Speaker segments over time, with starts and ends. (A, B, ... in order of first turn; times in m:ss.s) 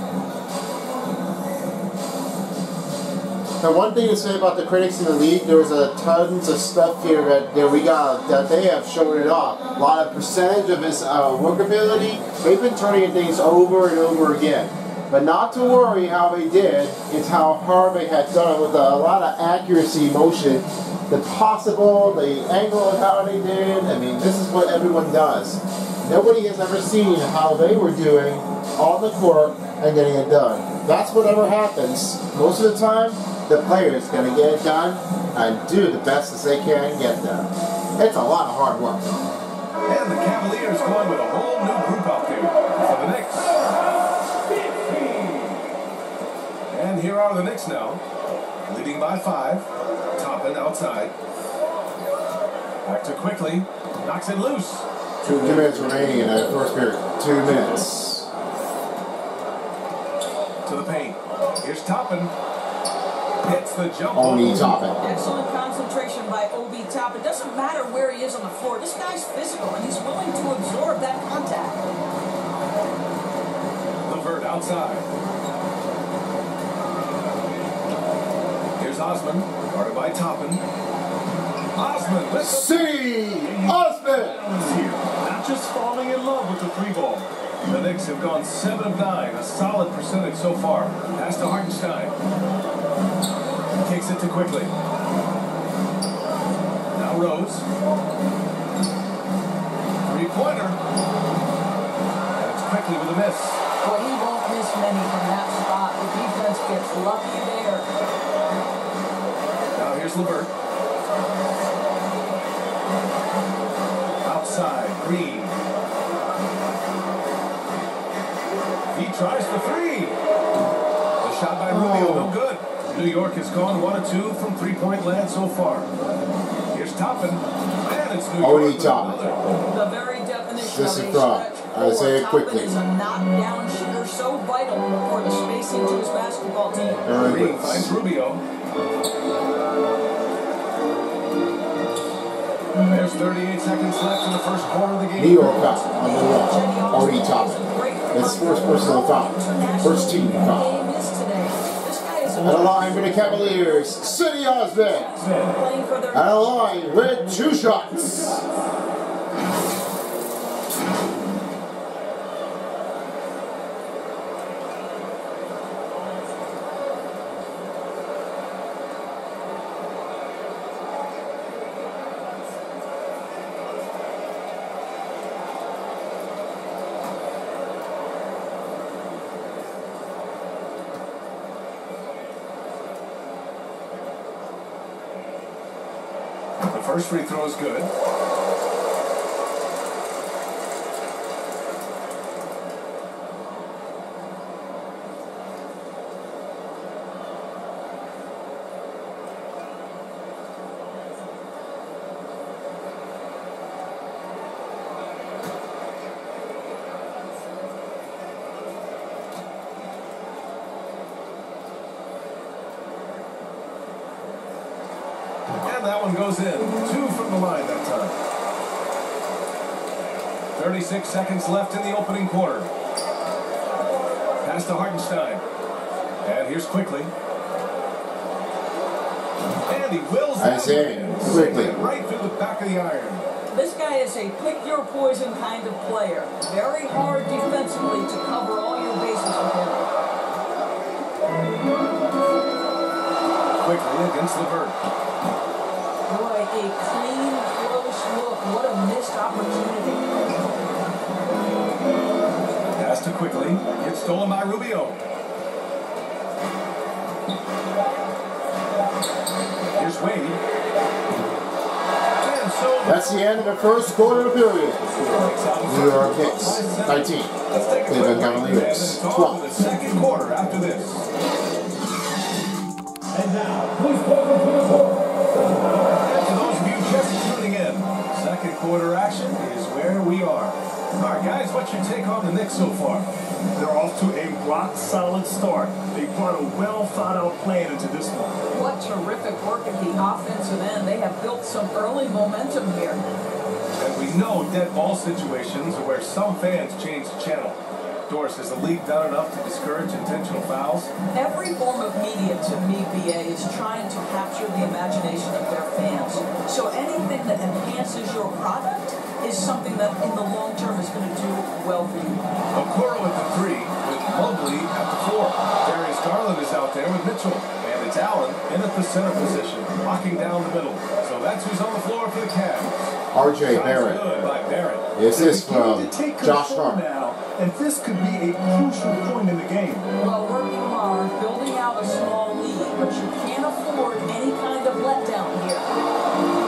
0:03.6-0:39.1 A
0:39.9-0:43.6 B
0:46.7-0:48.0 B
0:48.7-0:49.6 B
0:50.2-0:51.1 B
0:52.8-0:54.8 B
0:55.2-0:58.3 A
1:00.6-1:02.3 B
1:03.4-1:04.8 B
1:04.1-1:05.1 A
1:05.0-1:11.8 C
1:14.0-1:15.0 B
1:18.8-1:20.6 B
1:21.7-1:23.2 B
1:22.4-1:24.4 A
1:23.4-1:27.3 D
1:27.7-1:32.1 B
1:33.8-1:34.7 B
1:36.9-1:37.6 B
1:40.1-1:40.8 B
1:42.4-1:43.6 B
1:43.8-1:47.9 C
1:49.7-1:50.5 B
1:54.2-1:55.6 B
1:58.9-2:00.2 B
2:01.2-2:05.9 B
2:01.7-2:02.4 A
2:06.7-2:09.7 B
2:08.4-2:09.4 A
2:09.7-2:17.0 C
2:10.5-2:12.7 A
2:17.0-2:17.9 A
2:17.2-2:18.4 B
2:22.9-2:25.6 B
2:25.2-2:30.8 A
2:25.8-2:36.4 C
2:32.4-2:35.2 A
2:36.1-2:38.4 A
3:06.6-3:07.9 B
3:35.6-3:38.2 B
3:40.6-3:42.7 B
3:44.4-3:45.4 B
3:46.2-3:47.1 B
3:49.7-3:53.3 B
3:50.4-3:51.7 A
3:53.5-3:59.8 C
4:03.6-4:04.7 B
4:06.1-4:10.0 C
4:12.8-4:15.0 B
4:19.7-4:20.4 B
4:22.2-4:24.3 B
4:22.8-4:25.0 A
4:24.9-4:31.0 B
4:25.6-4:29.5 A
4:33.4-4:34.4 B
4:35.9-4:43.1 B
4:43.5-4:48.4 D
4:48.5-4:53.0 C
4:53.8-5:00.9 B
5:01.1-5:12.2 C
5:12.5-5:22.8 B
5:23.1-5:24.2 A
5:23.4-5:24.9 B
5:24.9-5:26.8 A
5:25.1-5:29.9 D
5:30.0-5:35.7 C